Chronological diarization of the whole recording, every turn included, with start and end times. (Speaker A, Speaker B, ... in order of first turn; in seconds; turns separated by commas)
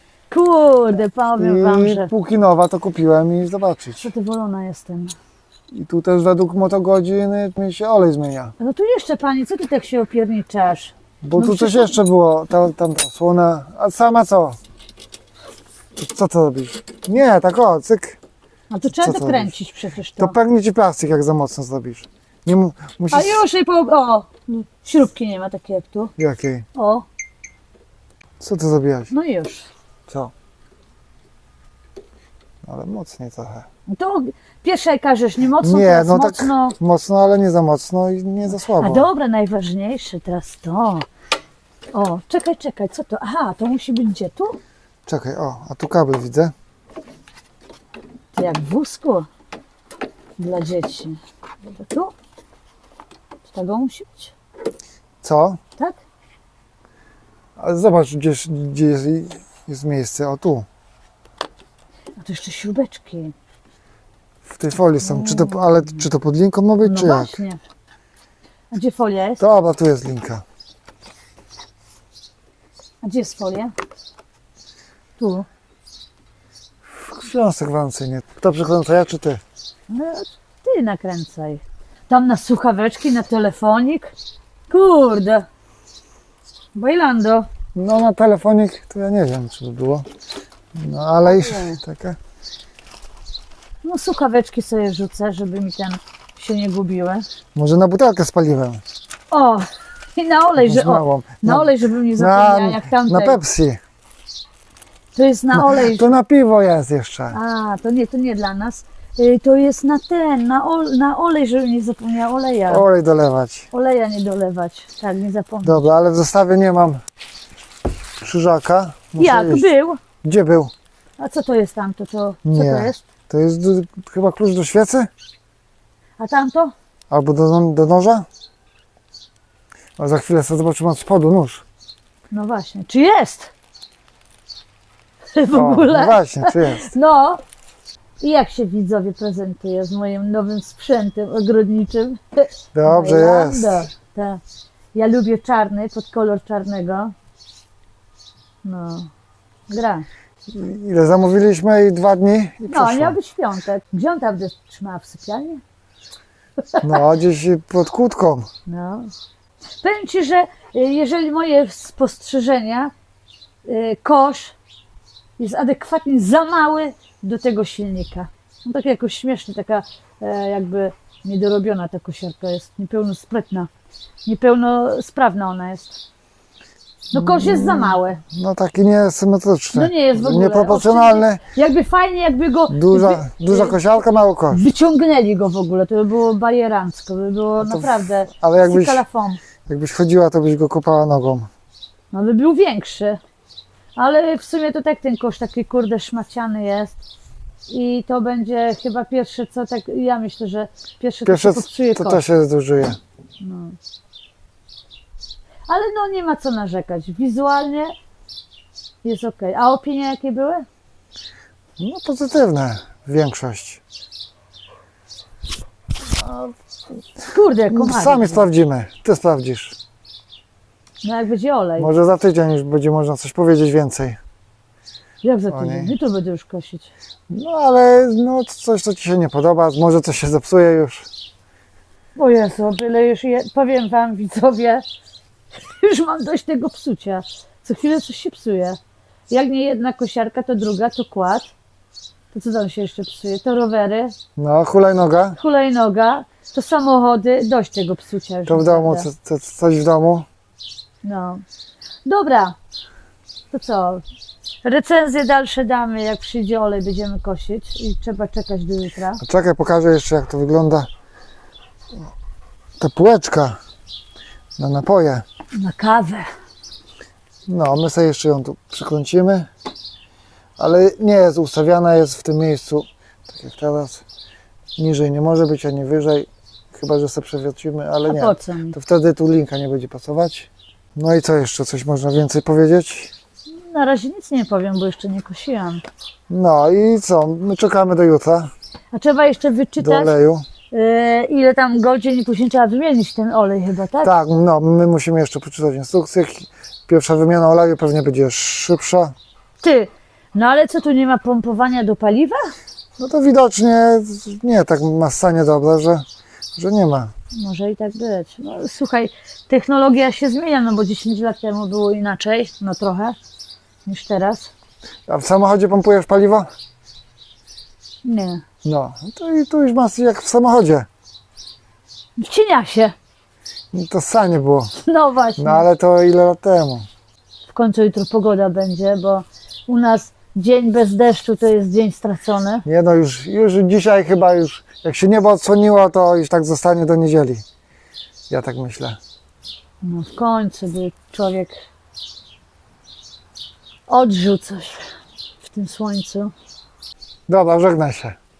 Speaker A: 0.3-2.1, Speaker B: 1.4-4.1, Speaker A: 4.0-5.1, Speaker B: 5.7-8.5, Speaker A: 8.6-11.9, Speaker B: 11.2-14.6, Speaker B: 15.9-18.2, Speaker A: 18.7-20.3, Speaker B: 18.9-19.5, Speaker B: 20.2-23.4, Speaker A: 23.1-26.1, Speaker B: 26.2-26.6, Speaker A: 26.7-27.0, Speaker B: 28.4-29.1, Speaker A: 29.1-29.7, Speaker B: 32.6-33.7, Speaker A: 33.9-36.8, Speaker B: 35.6-39.1, Speaker A: 38.5-41.0, Speaker A: 41.9-44.6, Speaker B: 45.0-46.5, Speaker A: 48.3-49.3, Speaker A: 50.4-52.1, Speaker A: 53.4-54.3, Speaker B: 55.2-55.6, Speaker B: 57.6-60.6, Speaker A: 62.2-63.3, Speaker B: 64.4-67.4, Speaker A: 65.0-66.0, Speaker A: 66.8-67.6, Speaker A: 68.7-69.4, Speaker B: 69.4-70.4, Speaker A: 73.0-73.7, Speaker A: 75.2-75.5, Speaker B: 76.8-79.4, Speaker A: 79.9-84.1, Speaker A: 84.7-85.5, Speaker A: 86.7-87.5, Speaker B: 87.7-90.0, Speaker B: 90.7-92.2, Speaker A: 91.2-91.8, Speaker A: 93.8-97.2, Speaker B: 97.5-98.8, Speaker A: 99.3-103.4, Speaker B: 100.6-103.8, Speaker A: 105.1-106.0, Speaker B: 105.5-107.4, Speaker A: 107.3-112.8, Speaker B: 112.7-113.7, Speaker A: 113.7-115.8, Speaker B: 115.6-117.0, Speaker B: 118.2-119.7, Speaker A: 119.2-120.0, Speaker B: 120.2-120.7, Speaker A: 121.2-123.0, Speaker B: 122.4-125.1, Speaker A: 126.2-126.7, Speaker B: 127.1-128.2, Speaker B: 130.0-131.6, Speaker A: 132.3-133.5, Speaker A: 135.3-137.4, Speaker B: 135.5-136.9, Speaker A: 138.2-144.4, Speaker B: 142.7-143.9, Speaker A: 144.9-147.1, Speaker A: 148.6-149.1, Speaker A: 149.7-150.1, Speaker B: 150.5-153.2, Speaker A: 152.6-155.6, Speaker B: 156.8-158.5, Speaker A: 158.7-159.1, Speaker A: 159.8-162.9, Speaker A: 163.6-164.5, Speaker A: 165.4-173.7, Speaker A: 174.2-176.0, Speaker A: 177.1-178.2, Speaker B: 177.1-181.4, Speaker A: 179.7-183.8, Speaker B: 182.7-184.6, Speaker A: 184.5-189.4, Speaker B: 187.6-189.0, Speaker B: 189.7-191.5, Speaker A: 192.1-193.2, Speaker A: 193.9-197.0, Speaker A: 197.7-202.2, Speaker B: 201.2-203.0, Speaker A: 203.4-203.8, Speaker A: 205.7-207.9, Speaker A: 209.0-210.6, Speaker B: 211.8-213.8, Speaker B: 216.1-216.5, Speaker A: 217.3-218.4, Speaker B: 217.7-219.8, Speaker A: 221.0-221.9, Speaker B: 221.8-224.2, Speaker A: 225.2-226.9, Speaker B: 225.5-225.9, Speaker B: 227.3-231.1, Speaker A: 232.2-234.8, Speaker A: 235.6-238.8, Speaker A: 239.3-241.5, Speaker A: 242.3-244.1, Speaker B: 244.3-245.4, Speaker A: 245.4-249.1, Speaker B: 248.5-250.3, Speaker A: 251.0-251.4, Speaker A: 252.0-252.5, Speaker A: 253.5-254.0, Speaker A: 254.6-259.2, Speaker B: 259.2-260.9, Speaker B: 262.8-263.6, Speaker B: 264.6-265.2, Speaker A: 265.6-266.3, Speaker B: 267.5-269.5, Speaker B: 270.6-274.0, Speaker B: 274.8-283.1, Speaker A: 278.0-278.7, Speaker A: 283.6-285.8, Speaker B: 286.3-288.5, Speaker A: 288.9-290.1, Speaker B: 289.8-290.4, Speaker A: 290.7-294.1, Speaker B: 294.0-299.1, Speaker A: 299.6-302.4, Speaker B: 303.0-306.0, Speaker B: 306.6-307.1, Speaker A: 307.3-313.1, Speaker A: 313.9-314.5, Speaker B: 315.1-316.5, Speaker A: 318.0-318.4, Speaker B: 318.6-320.9, Speaker A: 322.2-322.9, Speaker B: 323.7-324.7, Speaker A: 324.8-325.6, Speaker B: 325.4-326.9, Speaker A: 327.5-332.6, Speaker B: 332.6-337.4, Speaker B: 338.3-339.0, Speaker A: 339.8-341.5, Speaker A: 343.9-344.8, Speaker A: 345.4-346.3, Speaker B: 347.3-348.2